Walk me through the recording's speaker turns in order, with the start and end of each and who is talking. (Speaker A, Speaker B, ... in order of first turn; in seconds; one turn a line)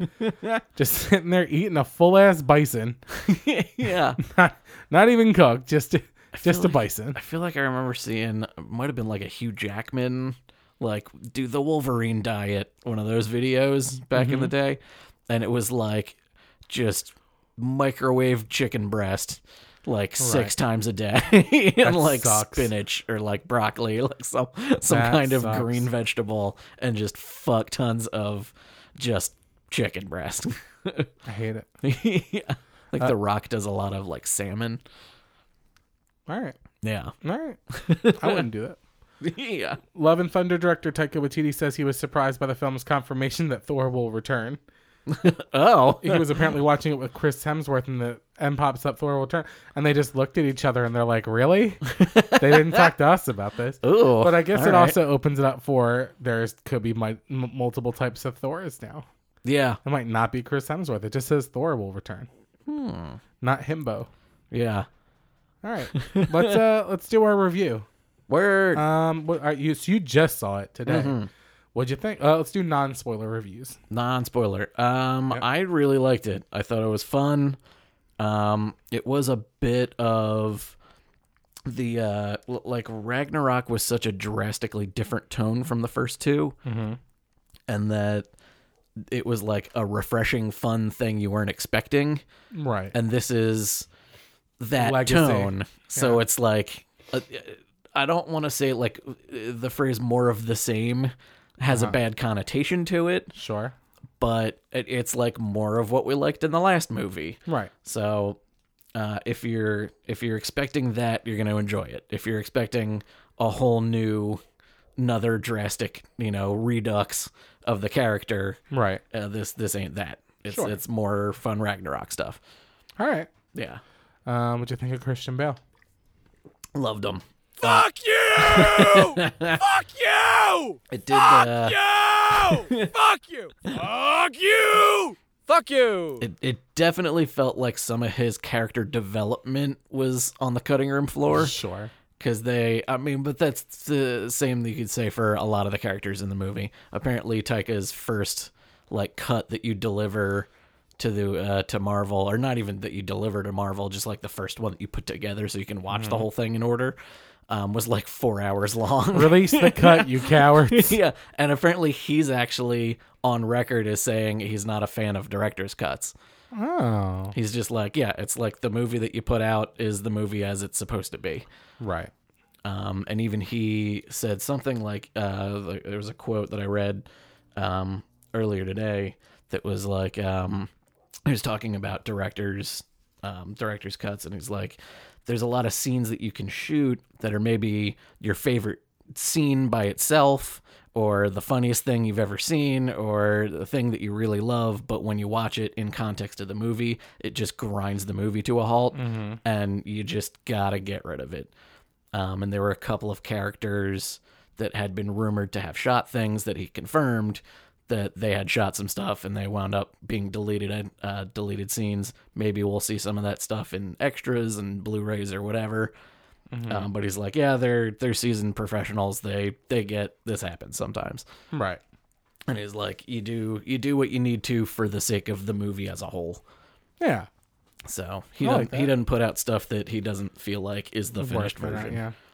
Speaker A: 0.2-0.6
Speaker B: 0.7-3.0
Speaker A: 3.2-4.2
Speaker B: 4.2-7.2
Speaker A: 6.3-31.1
Speaker B: 14.1-14.5
Speaker B: 20.2-20.5
Speaker B: 21.8-22.7
Speaker B: 24.9-25.9
Speaker B: 31.2-31.7
Speaker A: 31.8-34.8
Speaker B: 36.3-36.6
Speaker A: 36.8-37.1
Speaker B: 37.2-38.8
Speaker A: 37.7-38.4
Speaker A: 39.2-39.8
Speaker B: 39.9-44.6
Speaker A: 45.1-46.3
Speaker B: 46.0-59.1
Speaker A: 51.9-52.9
Speaker A: 53.8-55.0
Speaker A: 59.4-59.8
Speaker B: 59.8-62.3
Speaker A: 62.7-63.2
Speaker B: 63.4-64.1
Speaker A: 64.5-64.9
Speaker B: 65.6-67.9
Speaker A: 65.9-66.5
Speaker A: 68.3-68.8
Speaker B: 68.7-71.2
Speaker A: 70.9-71.3
Speaker B: 71.7-73.8
Speaker A: 73.9-77.6
Speaker A: 78.2-80.7
Speaker A: 81.7-86.5
Speaker B: 86.6-87.0
Speaker A: 87.7-88.3
Speaker A: 89.0-92.2
Speaker B: 92.5-92.9
Speaker A: 92.9-93.9
Speaker A: 94.6-103.3
Speaker B: 94.8-96.2
Speaker B: 101.7-102.0
Speaker B: 103.3-103.7
Speaker A: 104.2-108.4
Speaker A: 108.9-114.4
Speaker A: 115.0-118.6
Speaker B: 118.7-119.0
Speaker A: 119.1-122.4
Speaker B: 120.5-120.8
Speaker B: 123.0-123.3
Speaker A: 123.5-123.8
Speaker B: 124.2-125.6
Speaker A: 126.7-127.8
Speaker C: 127.6-136.2
Speaker A: 128.4-129.6
Speaker A: 130.9-131.8
Speaker A: 132.3-132.9
Speaker A: 136.2-141.5
Speaker B: 141.3-141.9
Speaker A: 142.2-157.0
Speaker B: 155.9-156.2
Speaker A: 157.5-166.1
Speaker B: 159.1-161.0
Speaker B: 166.5-167.3
Speaker A: 167.3-171.4
Speaker B: 171.8-172.1
Speaker A: 172.6-177.0
Speaker A: 177.6-180.7
Speaker A: 181.2-201.5
Speaker B: 198.9-199.4
Speaker A: 202.1-215.9
Speaker B: 216.5-216.9
Speaker A: 216.7-221.2
Speaker B: 221.5-221.8
Speaker A: 222.5-226.4
Speaker B: 227.0-227.3
Speaker A: 227.8-232.0
Speaker B: 228.4-228.9
Speaker B: 231.2-232.1